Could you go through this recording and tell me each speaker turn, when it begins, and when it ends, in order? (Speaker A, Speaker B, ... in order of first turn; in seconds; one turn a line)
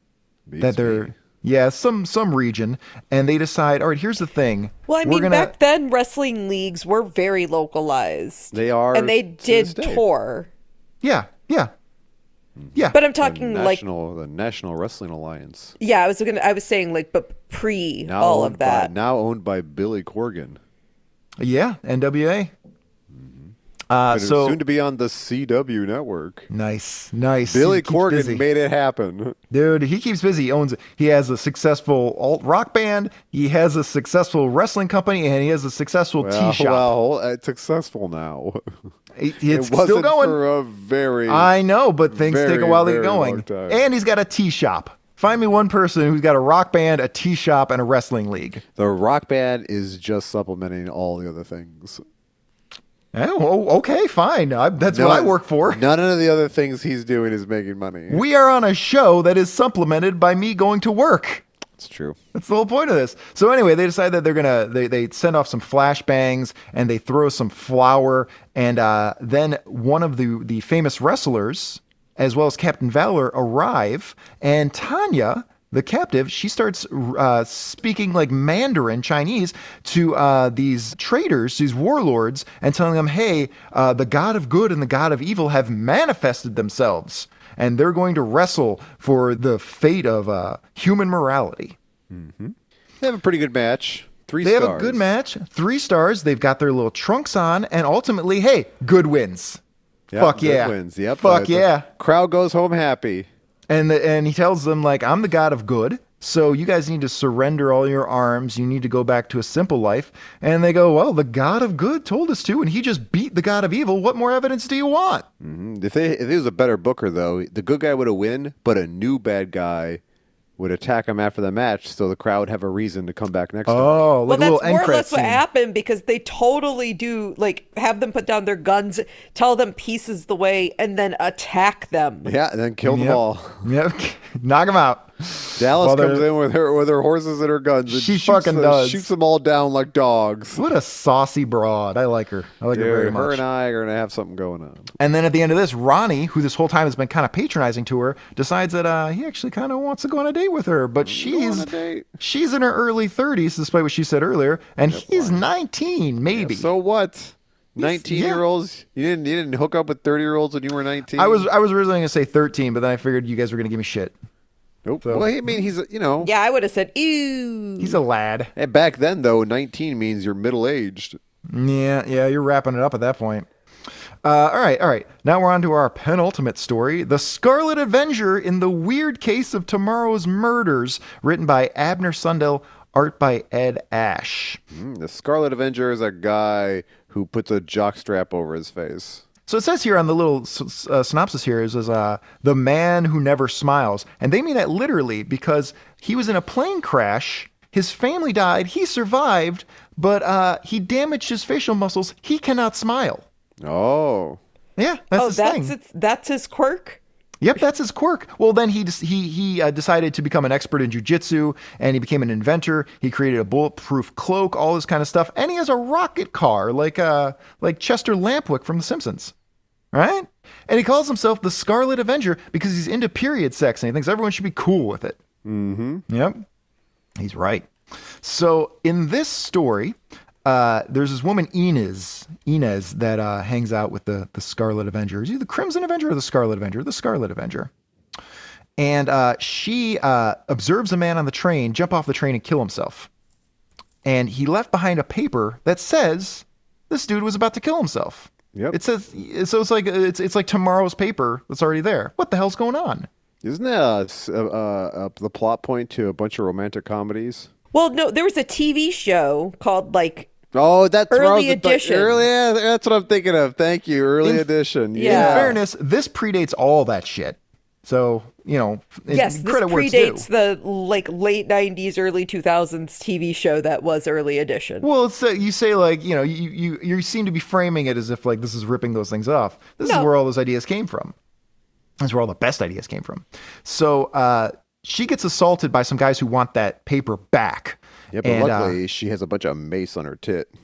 Speaker A: 0.5-1.1
Speaker B: 0.6-5.5
Speaker C: 4.9-10.5
Speaker A: 8.5-10.0
Speaker B: 11.0-11.7
Speaker A: 12.6-15.7
Speaker C: 12.9-13.8
Speaker C: 15.8-18.9
Speaker A: 18.1-20.6
Speaker B: 21.4-22.5
Speaker A: 23.1-23.5
Speaker B: 23.9-24.6
Speaker A: 24.1-26.5
Speaker B: 26.5-28.4
Speaker A: 27.4-29.4
Speaker B: 29.5-36.9
Speaker A: 36.2-38.6
Speaker B: 39.1-40.4
Speaker A: 39.5-41.5
Speaker B: 41.3-48.6
Speaker A: 42.1-43.8
Speaker A: 48.8-52.0
Speaker B: 53.1-55.8
Speaker A: 54.8-58.2
Speaker B: 58.1-61.4
Speaker A: 61.8-62.2
Speaker B: 62.3-91.8
Speaker A: 92.1-95.0
Speaker B: 94.4-99.6
Speaker A: 100.1-103.3
Speaker B: 100.1-101.9
Speaker B: 103.7-115.2
Speaker A: 115.4-120.0
Speaker A: 120.6-124.1
Speaker B: 123.7-125.4
Speaker C: 124.3-132.3
Speaker A: 132.2-133.7
Speaker B: 132.8-136.2
Speaker A: 135.6-140.6
Speaker B: 137.9-139.1
Speaker B: 140.5-143.4
Speaker A: 142.7-144.9
Speaker B: 145.0-156.7
Speaker A: 151.0-152.1
Speaker A: 154.9-155.5
Speaker A: 156.3-161.5
Speaker B: 157.8-158.4
Speaker B: 161.1-164.1
Speaker A: 164.8-166.3
Speaker B: 165.0-165.7
Speaker C: 166.2-168.0
Speaker B: 167.8-168.5
Speaker A: 168.6-171.2
Speaker B: 171.5-173.5
Speaker B: 174.2-184.6
Speaker A: 184.7-189.2
Speaker B: 189.5-203.2
Speaker A: 203.6-204.4
Speaker B: 204.8-205.7
Speaker C: 205.1-207.0
Speaker B: 207.4-219.3
Speaker B: 219.9-225.2
Speaker A: 225.4-226.0
Speaker B: 226.1-226.4
Speaker B: 227.2-227.7
Speaker B: 228.2-237.7
Speaker B: 238.8-243.1
Speaker B: 244.0-253.1
Speaker A: 253.4-257.5
Speaker C: 257.7-260.3
Speaker A: 260.5-265.6
Speaker C: 261.1-262.2
Speaker B: 264.2-264.5
Speaker C: 264.9-265.6
Speaker B: 265.1-270.3
Speaker C: 269.1-274.9
Speaker B: 274.8-281.1
Speaker C: 279.8-280.1
Speaker B: 282.0-288.8
Speaker A: 288.1-290.5